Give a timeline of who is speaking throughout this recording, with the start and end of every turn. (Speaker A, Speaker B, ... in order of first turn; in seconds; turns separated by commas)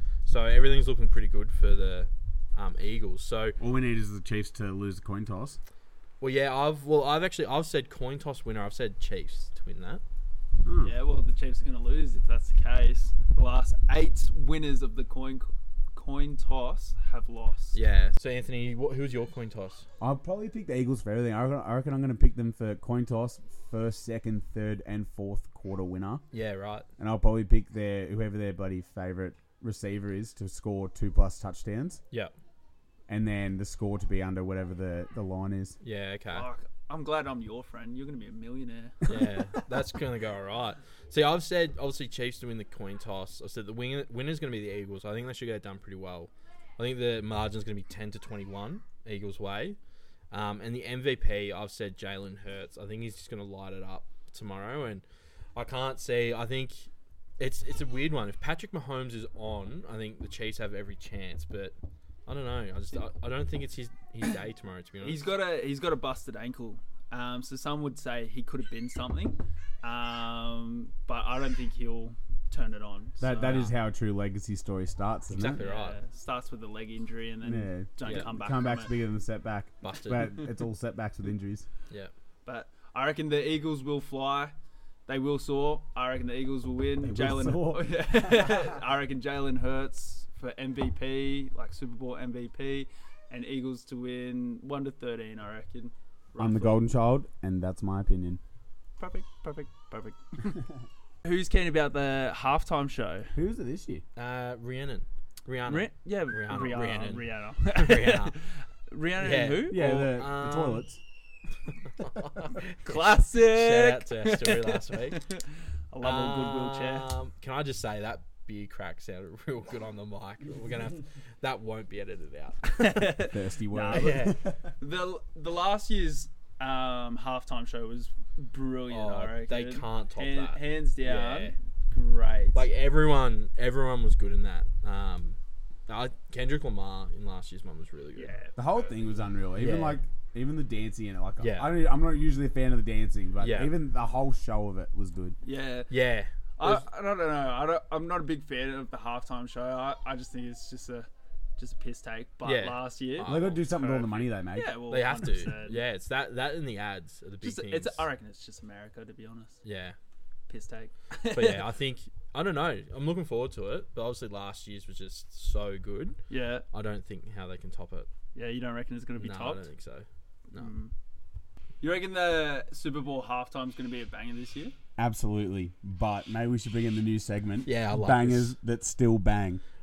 Speaker A: 0.2-3.6, Speaker B: 3.6-5.6, Speaker A: 6.2-10.0, Speaker B: 10.6-10.9, Speaker C: 10.8-17.8, Speaker A: 17.7-19.8, Speaker B: 20.0-26.2, Speaker A: 26.3-26.9, Speaker B: 27.0-32.0, Speaker B: 33.1-35.8, Speaker A: 35.8-36.5, Speaker C: 36.3-39.6, Speaker A: 39.1-49.8, Speaker A: 50.3-55.0, Speaker A: 55.5-61.7, Speaker A: 62.2-65.2, Speaker C: 65.0-73.7, Speaker B: 73.2-75.6, Speaker A: 75.3-76.0, Speaker C: 75.6-78.9, Speaker B: 77.4-81.7, Speaker A: 78.0-78.3, Speaker A: 79.8-80.5, Speaker C: 82.4-84.5, Speaker C: 85.1-96.8, Speaker B: 87.0-88.2, Speaker B: 96.4-98.4, Speaker C: 99.0-100.6, Speaker C: 101.2-103.3, Speaker B: 103.3-104.0, Speaker A: 104.2-108.3, Speaker C: 105.6-110.1, Speaker A: 109.2-110.8, Speaker B: 109.7-111.0, Speaker A: 112.0-115.2, Speaker C: 112.8-117.1, Speaker A: 116.0-123.3, Speaker C: 122.7-132.7, Speaker B: 123.2-124.6, Speaker A: 123.9-124.4, Speaker A: 128.9-131.5, Speaker A: 132.5-138.3, Speaker C: 138.2-139.0, Speaker B: 138.6-145.4, Speaker A: 139.6-140.0, Speaker A: 141.4-141.7, Speaker A: 143.4-143.7, Speaker C: 145.4-145.9, Speaker A: 145.9-146.8, Speaker C: 146.6-155.8, Speaker A: 152.4-153.7, Speaker B: 153.2-154.7, Speaker A: 154.8-158.1, Speaker C: 157.4-159.6, Speaker A: 159.6-160.0, Speaker C: 160.5-161.7, Speaker A: 161.2-166.2, Speaker C: 166.3-166.6, Speaker A: 166.7-168.1, Speaker C: 168.3-169.7, Speaker A: 169.2-170.7, Speaker C: 170.5-170.9, Speaker C: 171.8-174.7, Speaker B: 175.0-179.6, Speaker A: 177.7-178.5